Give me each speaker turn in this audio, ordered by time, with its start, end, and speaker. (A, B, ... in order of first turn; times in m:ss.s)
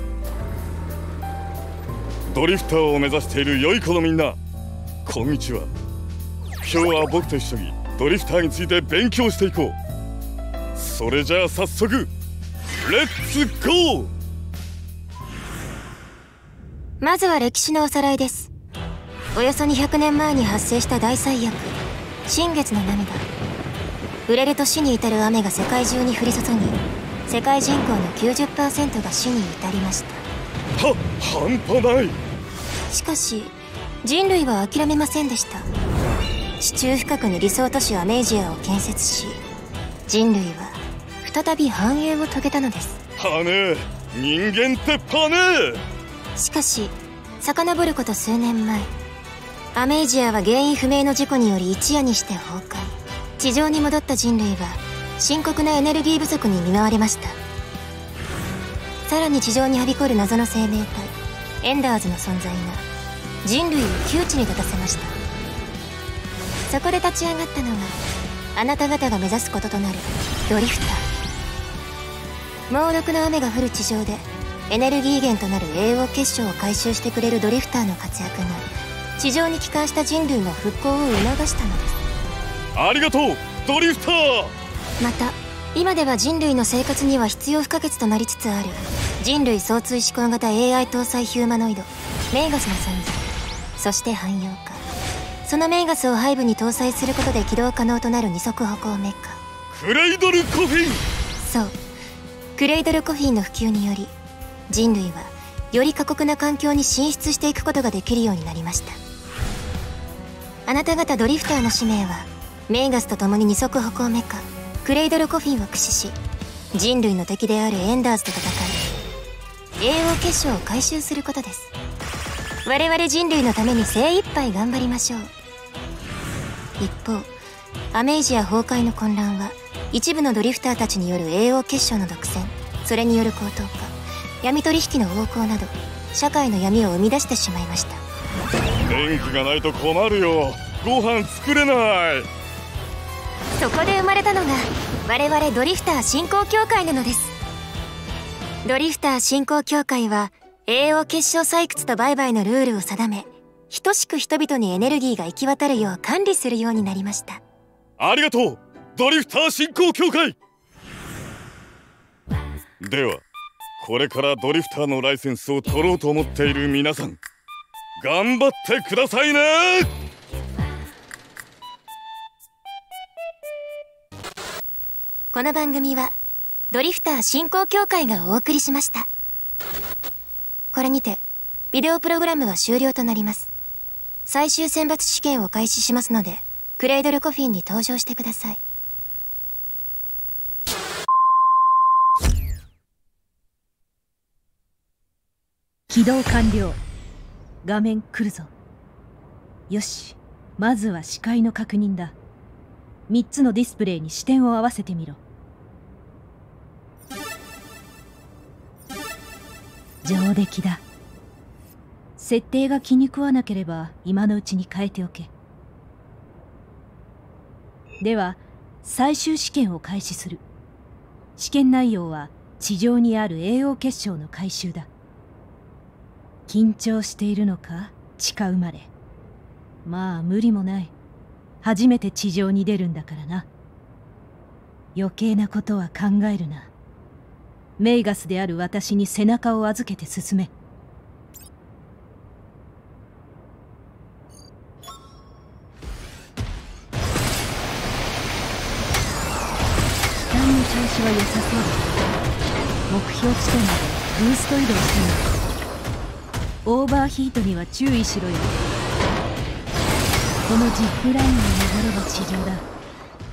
0:02.3-0:04.4 A
0:05.0-0:05.7 A
0:06.6-0:09.8 A
0:10.8-0:12.1 A
0:12.8-0:14.1 A
0:17.0-0:18.5 B
0:19.3-0:21.7 B
0:22.3-0:23.2 B
0:24.3-0:30.2 B
0:30.8-0:32.2 A
0:32.9-0:35.7 B
0:36.6-0:39.4 B
0:40.1-0:43.0 B
0:43.2-0:45.8 A
0:46.4-0:48.9 B
0:49.7-0:57.4 B
0:59.1-1:02.8 B
1:03.4-1:05.1 B
1:06.7-1:08.0 B
1:08.5-1:11.0 B
1:12.7-1:22.0 B
1:22.7-1:24.5 A
1:25.0-1:34.8 B
1:35.4-1:39.4 B
1:39.7-1:41.0 A
1:41.4-1:41.8 B
1:42.6-1:44.1 B
1:44.7-1:49.0 B
1:50.7-1:56.2 B
1:56.7-1:58.8 B
1:59.8-2:01.7 B
2:02.6-2:05.3 B
2:06.8-2:07.3 B
2:07.9-2:18.0 B
2:18.8-2:22.3 A
2:23.6-2:27.3 B
2:28.6-2:37.4 B
2:38.0-2:40.4 A
2:42.8-2:43.2 A
2:43.8-2:47.2 A
2:48.0-2:49.9 A
2:55.3-2:56.2 B
2:56.7-2:59.1 B
3:00.7-3:03.5 B
3:04.3-3:08.6 B
3:15.9-3:16.8 C
3:17.6-3:18.5 C
3:19.7-3:22.2 C
3:23.1-3:25.2 C
3:30.0-3:30.8 C
3:32.2-3:35.3 C
3:38.0-3:40.4 C
3:41.4-3:44.9 C
3:46.5-3:48.9 C
3:49.8-3:50.9 C
3:51.6-3:53.5 C
3:54.9-3:56.7 C
3:57.8-4:00.5 C
4:10.1-4:11.9 C
4:12.9-4:15.3 C
4:16.6-4:18.6 C
4:20.4-4:22.7 C